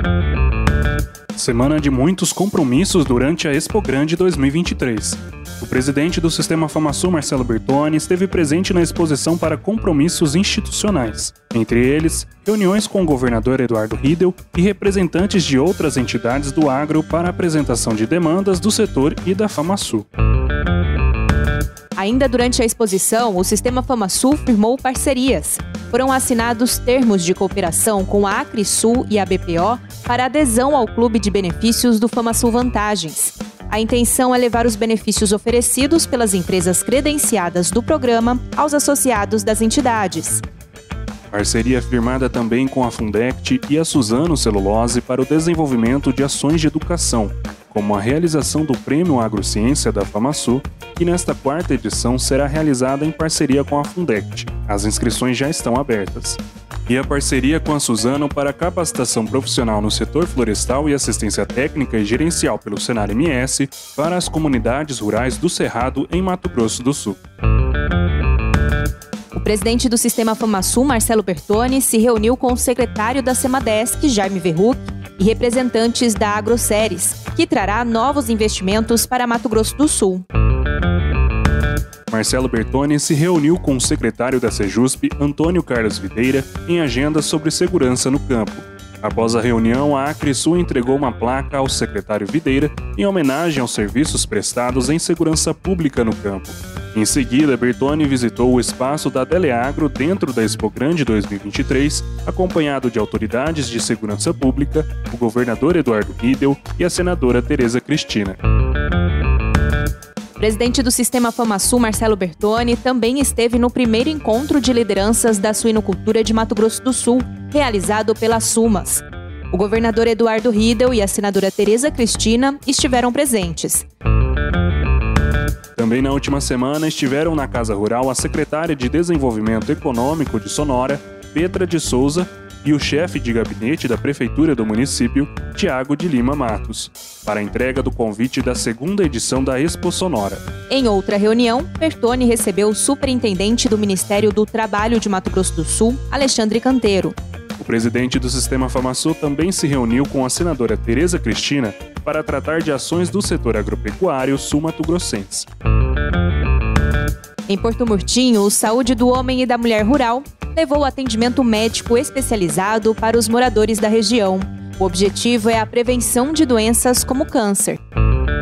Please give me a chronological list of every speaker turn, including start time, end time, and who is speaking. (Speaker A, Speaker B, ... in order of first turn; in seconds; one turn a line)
Speaker A: 1.4-20.1
Speaker B: 22.0-40.4
Speaker A: 41.3-67.2
Speaker B: 69.3-80.2
Speaker A: 82.1-108.4
Speaker B: 110.4-123.9
Speaker A: 125.8-140.4
Speaker B: 140.7-147.2
Speaker A: 147.6-155.5
Speaker B: 157.5-167.8